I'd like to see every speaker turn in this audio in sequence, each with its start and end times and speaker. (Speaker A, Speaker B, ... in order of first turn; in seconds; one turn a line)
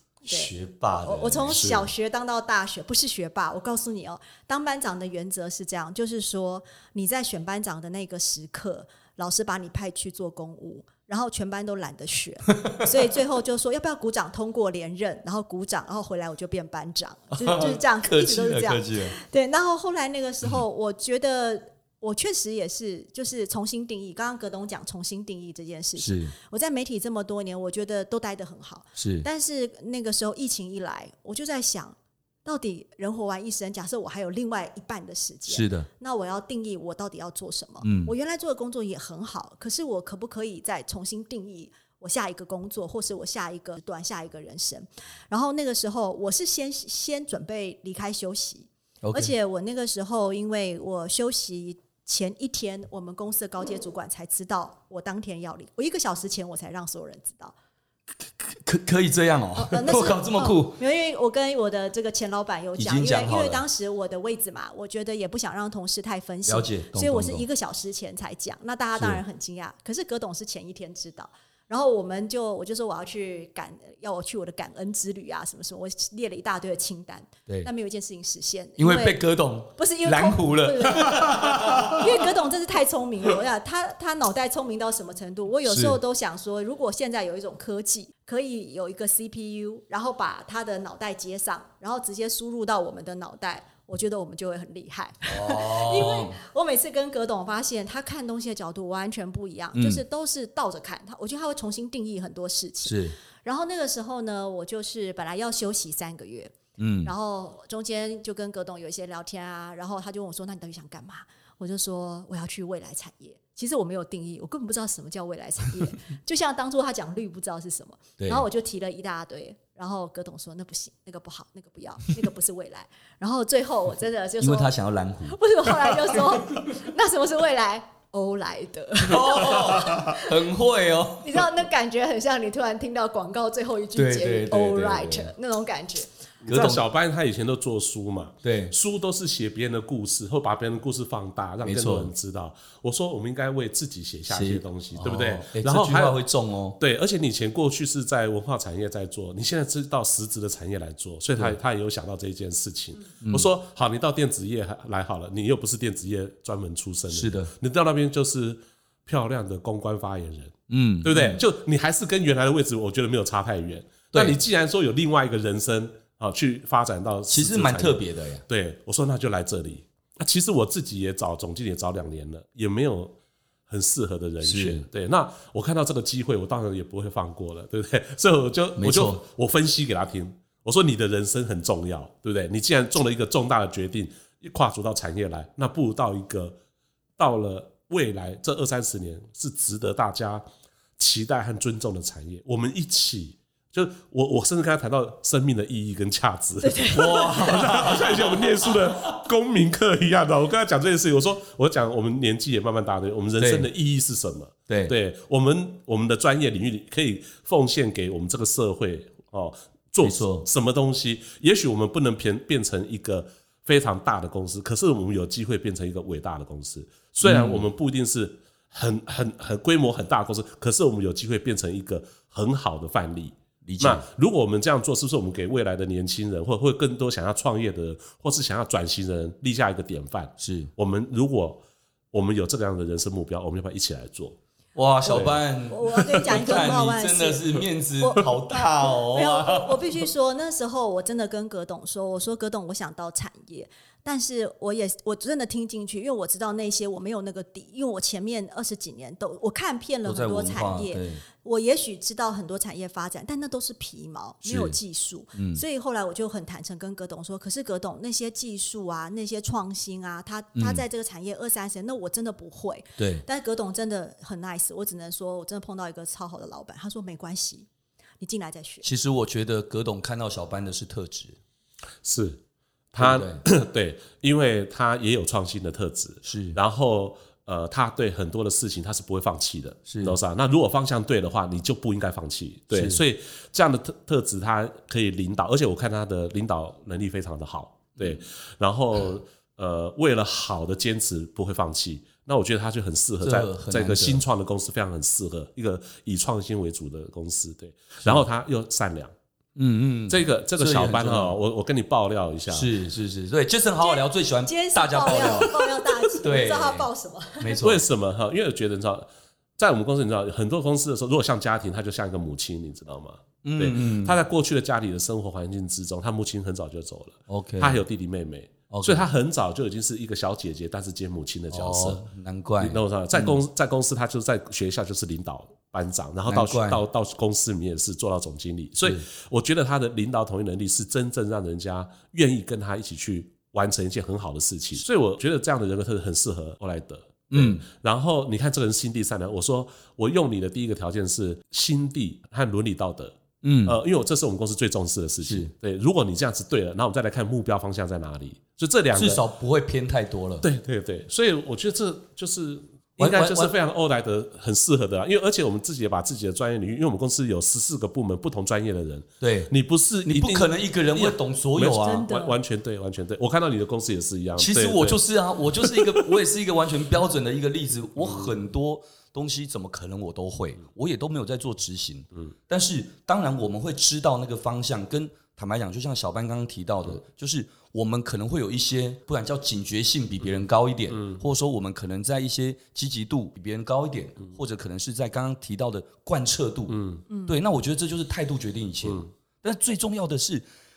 Speaker A: 0.2-1.8
Speaker B: 0.3-0.5
Speaker B: 1.0-57.5
Speaker C: 1.5-1.9
Speaker A: 12.5-12.8
Speaker A: 17.3-19.1
Speaker A: 26.0-26.3
Speaker A: 29.0-29.3
Speaker A: 35.5-35.9
Speaker A: 37.8-38.1
Speaker A: 49.0-49.3
Speaker A: 58.4-60.8
Speaker B: 59.5-79.2
Speaker A: 62.8-63.6
Speaker A: 66.5-67.4
Speaker A: 69.0-69.2
Speaker A: 78.8-82.2
Speaker B: 79.8-124.7
Speaker A: 85.7-86.0
Speaker A: 95.2-96.4
Speaker A: 99.7-100.0
Speaker A: 102.8-103.2
Speaker A: 106.8-107.1
Speaker A: 118.2-118.4
Speaker A: 124.4-125.4
Speaker B: 125.2-130.2
Speaker A: 126.0-126.6
Speaker A: 129.0-131.5
Speaker B: 131.2-136.1
Speaker A: 133.9-135.3
Speaker A: 136.4-136.8
Speaker C: 136.4-146.2
Speaker A: 138.4-138.7
Speaker A: 141.6-142.1
Speaker A: 144.3-146.8
Speaker C: 146.8-173.2
Speaker A: 153.2-153.5
Speaker A: 157.1-157.5
Speaker A: 160.7-161.4
Speaker A: 167.3-168.4
Speaker C: 173.7-186.6
Speaker A: 174.4-174.8
Speaker A: 178.8-179.2
Speaker C: 187.2-190.4
Speaker C: 191.0-234.4
Speaker B: 196.6-197.4
Speaker A: 196.9-198.4
Speaker A: 203.4-203.7
Speaker A: 204.7-204.9
Speaker A: 210.0-210.5
Speaker A: 217.2-217.7
Speaker A: 223.6-224.0
Speaker A: 230.4-230.7
Speaker A: 234.8-240.0
Speaker C: 235.1-236.4
Speaker B: 235.7-267.7
Speaker A: 250.0-251.2
Speaker A: 254.4-254.8
Speaker A: 255.3-255.6
Speaker A: 260.6-260.8
Speaker A: 263.0-263.2
Speaker B: 268.2-268.8
Speaker A: 268.8-271.4
Speaker C: 272.0-272.4
Speaker C: 272.9-299.1
Speaker A: 273.0-273.4
Speaker A: 276.2-276.6
Speaker A: 279.9-280.2
Speaker A: 282.7-283.0
Speaker A: 293.2-294.2
Speaker A: 299.6-301.4
Speaker C: 300.1-302.7
Speaker A: 302.5-306.9
Speaker B: 303.8-307.6
Speaker A: 307.4-307.8
Speaker C: 307.6-322.0
Speaker A: 313.4-314.2
Speaker A: 317.3-317.8
Speaker A: 318.7-319.1
Speaker A: 321.5-323.4
Speaker C: 322.6-349.2
Speaker A: 326.3-326.8
Speaker A: 337.3-337.6
Speaker A: 343.4-343.8
Speaker A: 345.2-345.5
Speaker A: 348.9-350.4
Speaker C: 350.4-365.0
Speaker A: 353.0-353.5
Speaker A: 359.2-359.5
Speaker A: 360.1-362.1
Speaker B: 361.8-362.4
Speaker A: 364.4-390.4
Speaker C: 365.6-366.1
Speaker C: 386.7-387.0
Speaker B: 387.1-387.3